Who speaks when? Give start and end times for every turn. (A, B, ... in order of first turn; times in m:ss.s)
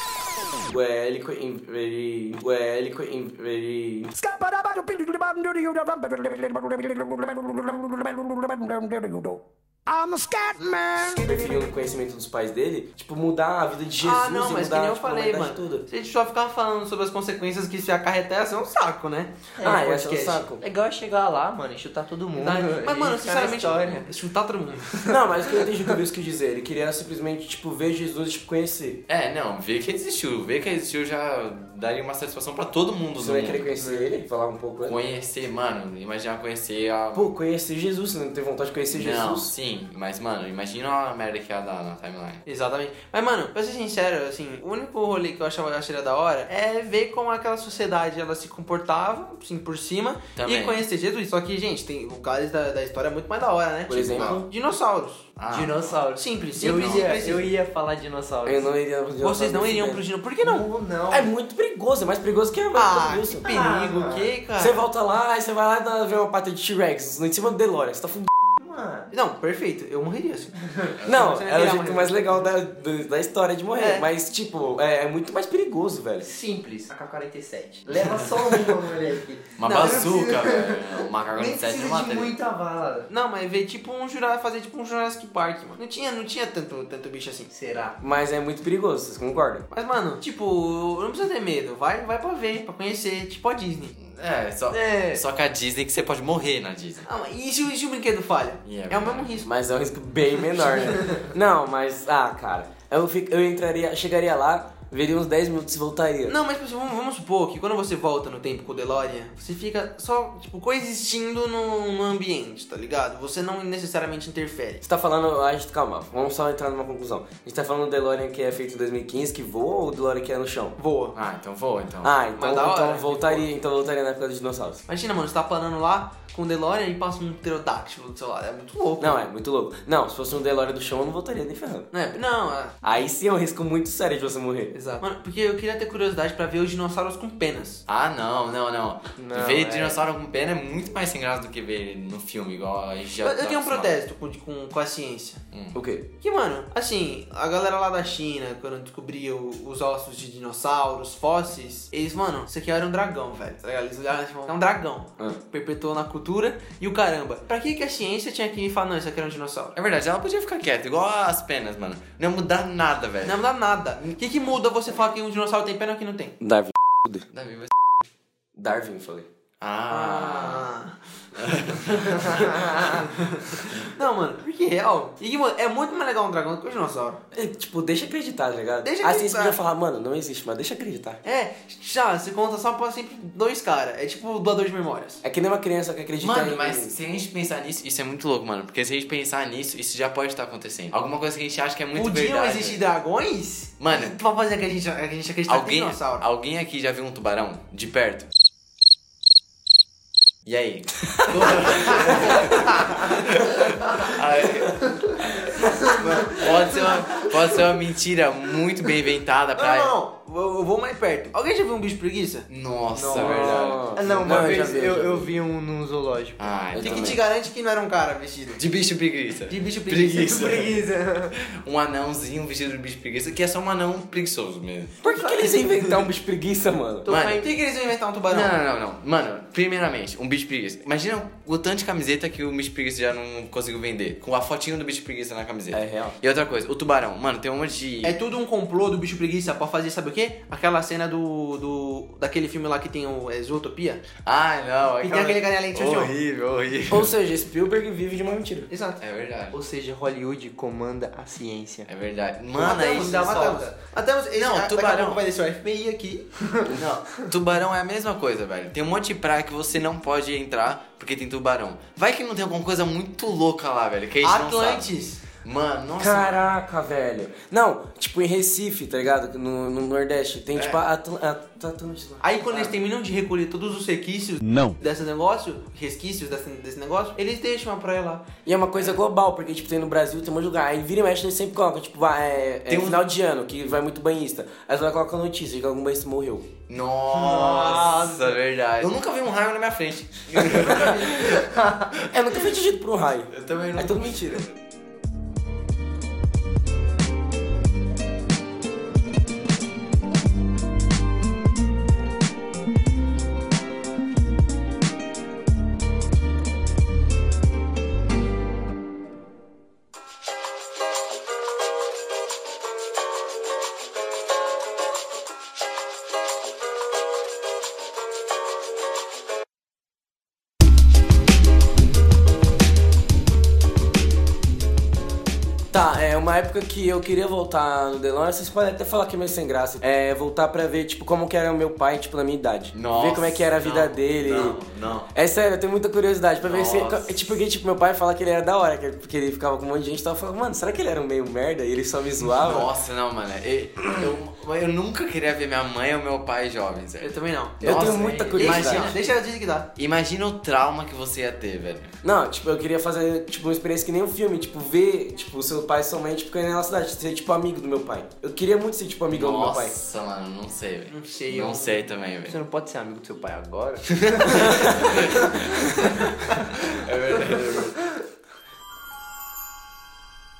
0:00.7-0:04.1 A
0:04.2-0:11.7 B
0:11.1-0:15.8 A
0:14.0-0:19.9 C
0:19.6-0:24.1 D
0:19.6-0:20.6 A
0:22.4-0:25.2 C
0:25.1-0:29.0 A
0:29.1-0:33.7 E
0:33.2-0:35.0 A
0:33.8-0:34.1 D
0:34.8-0:37.3 E
0:37.1-0:39.5 A
0:38.9-0:42.4 E
0:42.5-0:55.3 C
0:50.4-0:50.8 E
0:53.9-0:54.5 A
0:54.1-0:54.4 E
0:55.4-0:56.0 E
0:55.5-0:58.7 D
0:56.2-0:57.5 C
0:56.6-0:57.1 E
0:58.4-1:00.0 A
0:59.2-1:00.7 C
1:00.4-1:01.3 D
1:01.1-1:03.5 A
1:02.7-1:04.8 C
1:03.4-1:04.3 D
1:04.6-1:08.3 A
1:08.6-1:09.1 D
1:09.1-1:12.2 C
1:11.0-1:16.3 A
1:13.8-1:14.1 C
1:16.2-1:23.1 D
1:19.6-1:22.4 E
1:19.6-1:20.3 C
1:23.1-1:27.5 C
1:27.5-1:28.0 D
1:28.0-1:29.7 A
1:29.7-1:33.9 C
1:34.0-1:37.1 E
1:34.7-1:35.2 D
1:37.1-1:39.5 C
1:38.6-1:39.3 E
1:39.4-1:46.4 A
1:40.6-1:41.2 C
1:46.3-1:54.8 C
1:54.8-2:00.8 A
2:00.8-2:01.2 C
2:01.1-2:02.2 E
2:02.0-2:04.8 A
2:02.4-2:03.4 C
2:04.9-2:09.2 C
2:09.0-2:11.9 A
2:11.9-2:12.8 C
2:12.8-2:14.8 A
2:14.7-2:17.8 C
2:17.9-2:24.0 E
2:19.2-2:20.0 D
2:23.2-2:25.4 C
2:25.5-2:25.8 E
2:25.8-2:26.1 A
2:26.2-2:39.8 C
2:39.8-2:43.4 E
2:43.2-2:46.4 C
2:46.4-2:47.3 A
2:47.3-2:47.9 E
2:48.6-2:49.3 A
2:49.6-2:50.7 E
2:49.9-2:51.0 C
2:51.4-2:53.1 E
2:51.9-2:57.2 C
2:57.3-3:01.2 A
2:58.8-2:59.6 C
3:01.2-3:05.2 C
3:05.2-3:06.9 A
3:06.2-3:12.8 E
3:12.0-3:16.2 C
3:13.8-3:14.2 E
3:15.5-3:18.3 E
3:20.5-3:30.0 E
3:29.6-3:32.5 C
3:32.5-3:33.9 E
3:33.0-3:35.4 A
3:33.0-3:36.5 D
3:36.4-3:37.2 E
3:36.7-3:37.2 A
3:36.8-3:38.6 C
3:38.6-3:45.0 E
3:39.5-3:40.8 C
3:40.4-3:41.4 D
3:45.0-3:47.1 A
3:45.1-3:45.9 C
3:47.1-3:47.5 D
3:47.1-3:47.5 E
3:47.1-3:48.6 C
3:48.3-3:58.2 E
3:55.7-3:56.2 A
3:58.0-4:04.0 C
4:04.2-4:07.1 E
4:05.0-4:06.1 C
4:06.9-4:08.7 A
4:08.7-4:09.0 C
4:09.0-4:09.6 E
4:09.5-4:11.9 D
4:11.9-4:13.6 E
4:12.6-4:16.7 C
4:12.7-4:13.8 D
4:14.4-4:15.2 E
4:16.7-4:24.9 E
4:24.2-4:25.2 C
4:25.4-4:26.4 E
4:26.0-4:32.7 A
4:32.2-4:38.3 C
4:38.4-4:46.5 A
4:42.7-4:43.1 E
4:46.7-4:52.1 E
4:47.1-4:48.3 C
4:50.6-4:51.3 C
4:51.9-4:54.4 A
4:53.3-4:54.5 E
5:25.7-5:34.6 A
5:32.7-5:35.1 E
5:35.1-5:42.7 A
5:36.4-5:37.3 E
5:42.3-5:49.1 E
5:47.0-5:49.7 C
5:47.6-5:49.0 A
5:47.8-5:48.4 D
5:49.8-5:51.9 E
5:52.0-5:59.7 A
5:59.1-6:02.4 E
6:00.9-6:01.8 C
6:02.3-6:04.6 D
6:03.9-6:07.9 E